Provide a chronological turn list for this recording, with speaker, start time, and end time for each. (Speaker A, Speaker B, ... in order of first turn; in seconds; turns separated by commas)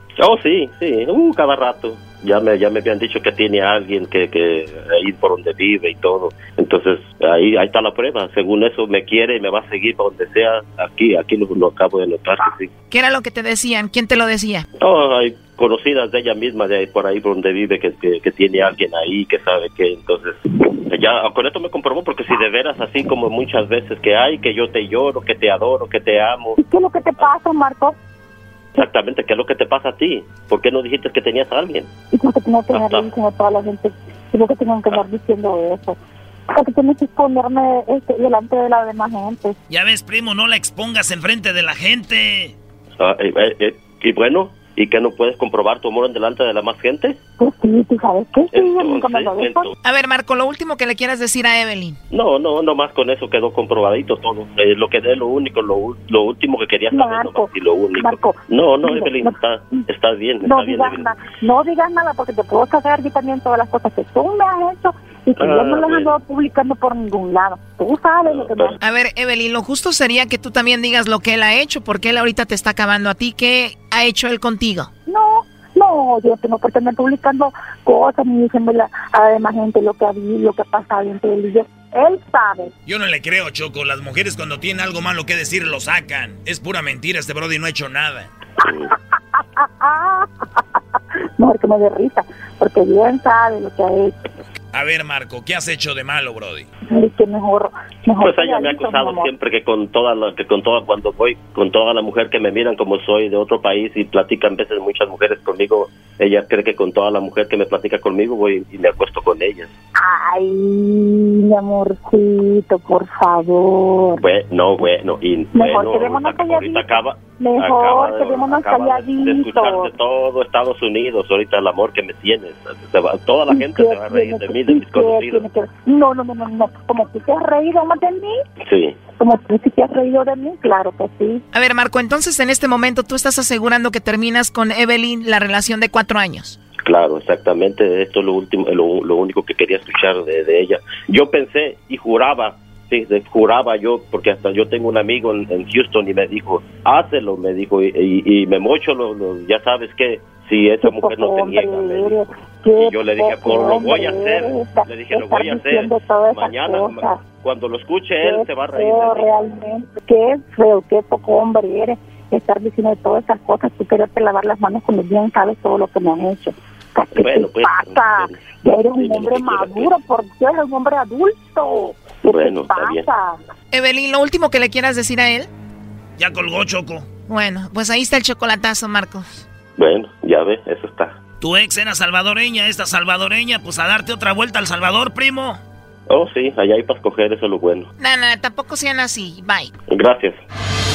Speaker A: 0.2-12.7, Speaker B: 12.9-14.7, Speaker A: 14.8-26.6, Speaker C: 26.6-28.0, Speaker A: 28.8-31.9, Speaker C: 32.1-36.0, Speaker A: 32.7-33.1, Speaker C: 36.5-39.6, Speaker D: 39.9-40.8, Speaker D: 41.5-42.5, Speaker A: 43.0-47.2, Speaker C: 47.4-49.7, Speaker A: 48.5-49.7, Speaker B: 49.8-52.0, Speaker A: 52.1-61.1, Speaker C: 56.9-59.8, Speaker C: 60.4-68.8, Speaker A: 65.4-66.1, Speaker A: 68.3-68.8, Speaker B: 68.8-74.9, Speaker C: 75.0-82.7, Speaker D: 83.3-88.1, Speaker A: 88.6-88.9, Speaker C: 89.4-90.3, Speaker C: 91.4-94.2, Speaker C: 96.9-99.3, Speaker A: 98.2-109.7, Speaker C: 110.0-114.2, Speaker A: 114.2-125.5, Speaker C: 115.5-116.8, Speaker C: 117.4-119.9, Speaker C: 123.5-128.3, Speaker A: 128.6-129.0, Speaker C: 129.2-131.4, Speaker B: 131.5-136.6, Speaker A: 136.8-159.3, Speaker C: 150.8-157.2, Speaker C: 158.2-173.4, Speaker A: 167.1-168.4, Speaker A: 169.0-169.9, Speaker A: 172.3-173.1, Speaker B: 173.7-175.5, Speaker B: 177.0-179.4, Speaker A: 179.8-181.2, Speaker D: 181.5-181.9, Speaker D: 182.6-185.3, Speaker A: 186.1-187.9, Speaker B: 188.0-189.7, Speaker A: 189.9-190.4